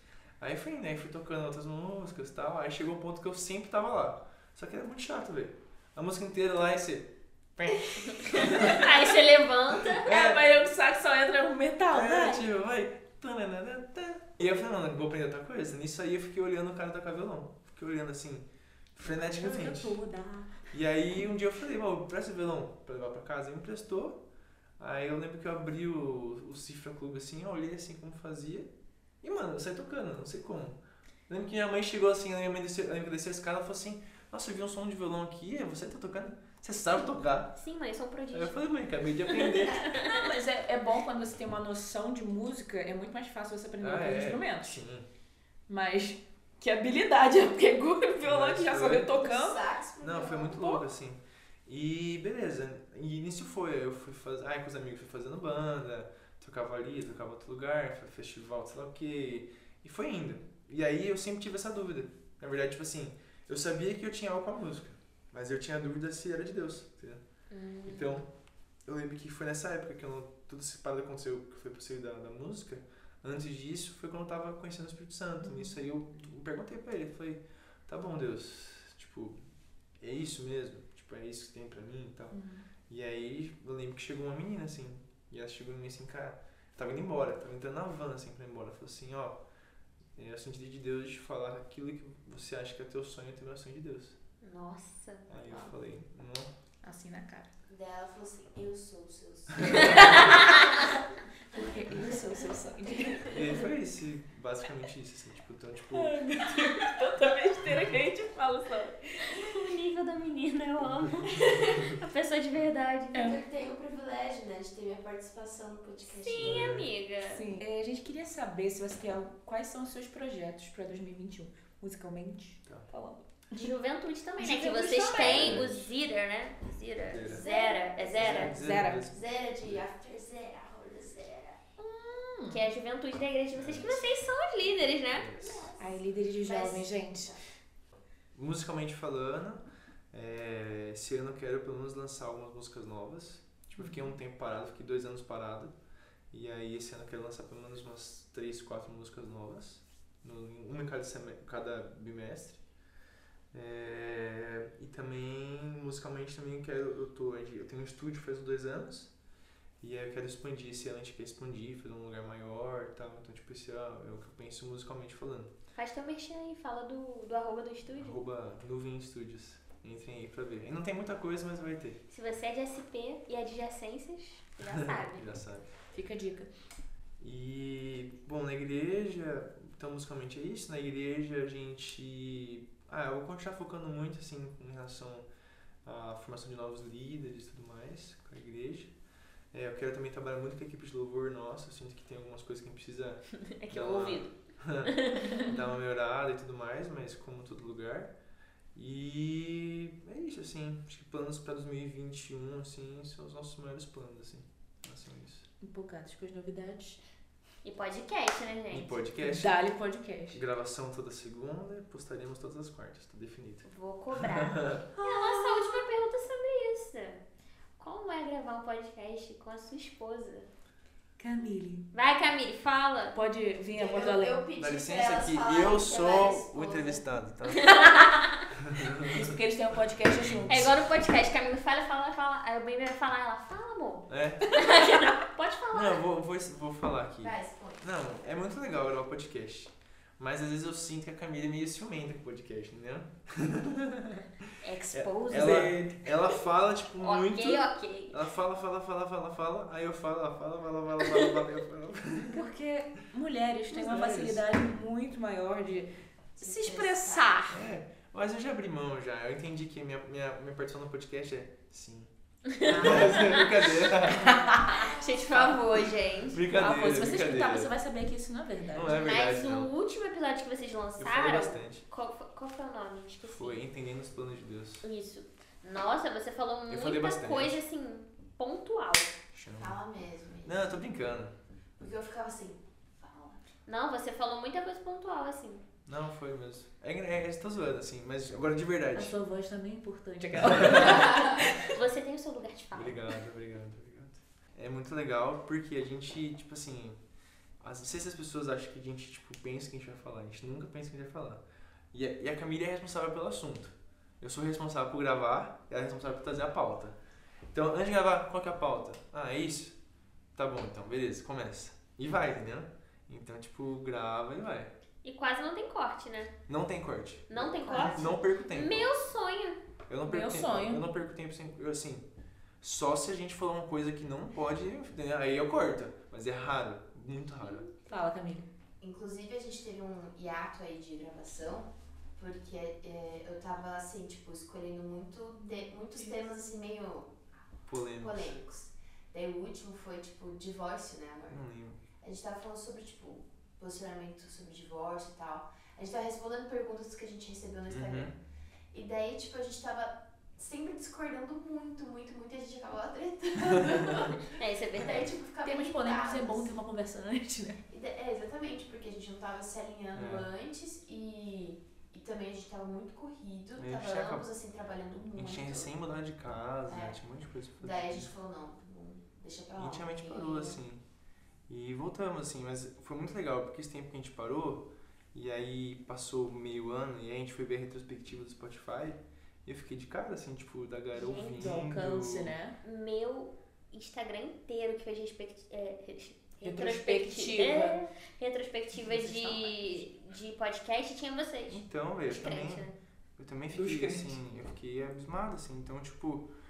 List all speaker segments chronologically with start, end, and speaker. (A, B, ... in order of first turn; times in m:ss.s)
0:00.4-0:08.9 A
0:08.0-0:10.1 B
0:08.5-0:08.8 C
0:09.9-0:10.4 A
0:10.0-0:12.4 C
0:11.9-0:20.0 A
0:19.0-0:20.6 C
0:20.7-0:24.2 A
0:24.8-0:28.7 A
0:29.2-0:37.6 A
0:37.6-0:38.6 B
0:38.3-0:39.8 A
0:39.2-0:40.3 B
0:39.9-0:44.8 C
0:43.8-0:45.1 A
0:45.7-0:49.6 C
0:48.2-0:49.1 A
0:49.2-0:50.8 D
0:50.0-1:07.2 A
1:07.5-1:08.1 B
1:07.8-1:08.3 A
1:08.8-1:19.4 A
1:15.4-1:15.8 C
1:20.0-1:29.4 A
1:22.3-1:22.7 C
1:30.2-1:34.2 A
1:34.4-1:35.7 B
1:35.3-1:36.5 A
1:36.8-1:37.5 C
1:37.7-1:40.9 D
1:39.6-1:40.1 A
1:39.8-1:40.6 B
1:40.0-1:40.4 C
1:41.5-1:43.5 C
1:43.3-1:46.4 A
1:45.9-1:49.4 C
1:49.2-1:53.3 B
1:53.1-1:53.4 C
1:53.1-1:56.7 D
1:56.1-1:57.4 B
1:56.3-1:56.9 A
1:57.3-2:03.6 C
2:03.5-2:08.5 B
2:04.4-2:05.7 C
2:05.1-2:05.9 A
2:07.1-2:07.5 A
2:07.2-2:11.6 D
2:08.1-2:09.8 A
2:08.5-2:09.1 C
2:11.8-2:12.6 C
2:12.5-2:15.3 B
2:13.5-2:14.0 A
2:15.1-2:15.7 A
2:15.4-2:17.4 D
2:15.8-2:17.4 C
2:18.3-2:25.7 A
2:23.8-2:24.1 C
2:26.3-2:32.6 A
2:33.5-2:39.1 A
2:39.8-2:45.5 A
2:45.7-2:48.2 B
2:48.0-2:52.0 A
2:52.1-2:55.3 B
2:54.6-2:55.7 A
2:55.9-2:56.5 C
2:57.2-3:05.3 A
3:05.8-3:08.9 A
3:09.5-3:18.1 A
3:13.4-3:15.5 B
3:18.7-3:25.4 A
3:25.6-3:27.0 C
3:27.6-3:29.0 B
3:28.7-3:29.6 A
3:29.2-3:30.4 C
3:30.3-3:34.8 A
3:33.6-3:37.2 B
3:35.0-3:35.8 C
3:37.8-3:40.5 B
3:41.2-3:41.9 C
3:41.9-3:43.2 B
3:43.1-3:44.4 C
3:43.7-3:47.0 D
3:44.6-3:47.8 A
3:47.5-3:48.4 B
3:47.7-3:48.1 C
3:48.5-3:49.4 A
3:49.1-3:50.7 C
3:50.2-3:50.7 A
3:50.5-3:56.0 B
3:54.1-3:54.6 A
3:55.7-4:04.3 A
3:57.2-3:57.8 D
4:04.6-4:05.7 B
4:04.9-4:12.5 A
4:05.3-4:06.0 C
4:07.0-4:08.2 B
4:11.0-4:11.4 B
4:12.3-4:17.6 C
4:13.7-4:14.4 A
4:16.4-4:17.5 D
4:17.5-4:24.5 A
4:22.5-4:23.8 B
4:22.7-4:24.9 C
4:24.3-4:25.6 D
4:24.7-4:26.4 B
4:26.3-4:27.7 A
4:26.5-4:29.0 C
4:28.7-4:29.7 A
4:28.9-4:33.6 B
4:31.0-4:31.8 A
4:33.3-4:34.8 A
4:34.8-4:39.2 B
4:36.7-4:37.6 A
4:39.3-4:39.8 A
4:39.6-4:40.7 D
4:40.4-4:41.3 A
4:41.8-4:43.4 D
4:43.7-4:45.6 B
4:45.8-4:49.1 A
4:48.9-4:51.7 C
4:50.4-4:51.0 A
4:51.1-4:53.0 B
4:52.7-4:57.0 A
4:57.6-5:01.4 A
5:01.9-5:07.0 A
5:07.5-5:09.7 A
5:10.4-5:14.7 A
5:15.0-5:16.3 B
5:16.5-5:18.9 A
5:17.3-5:19.6 B
5:17.5-5:18.1 D
5:19.9-5:22.1 A
5:20.0-5:20.8 C
5:22.6-5:27.7 A
5:27.8-5:28.5 C
5:28.8-5:37.1 D
5:37.7-5:38.3 A
5:38.0-5:41.4 D
5:41.3-5:41.8 A
5:42.0-5:48.2 D
5:47.7-5:48.1 A
5:48.7-5:56.5 D
5:53.4-5:54.0 A
5:54.2-5:55.1 B
5:55.4-5:57.6 C
5:57.7-6:05.7 D
5:59.9-6:00.3 A
6:03.6-6:04.3 A
6:05.1-6:08.1 A
6:06.7-6:07.0 D
6:07.6-6:10.6 D
6:09.6-6:10.8 A
6:11.5-6:22.3 A
6:21.0-6:21.4 B
6:21.2-6:22.6 C
6:22.6-6:32.8 B
6:26.4-6:27.8 C
6:28.7-6:29.8 C
6:31.5-6:36.3 A
6:33.5-6:34.1 C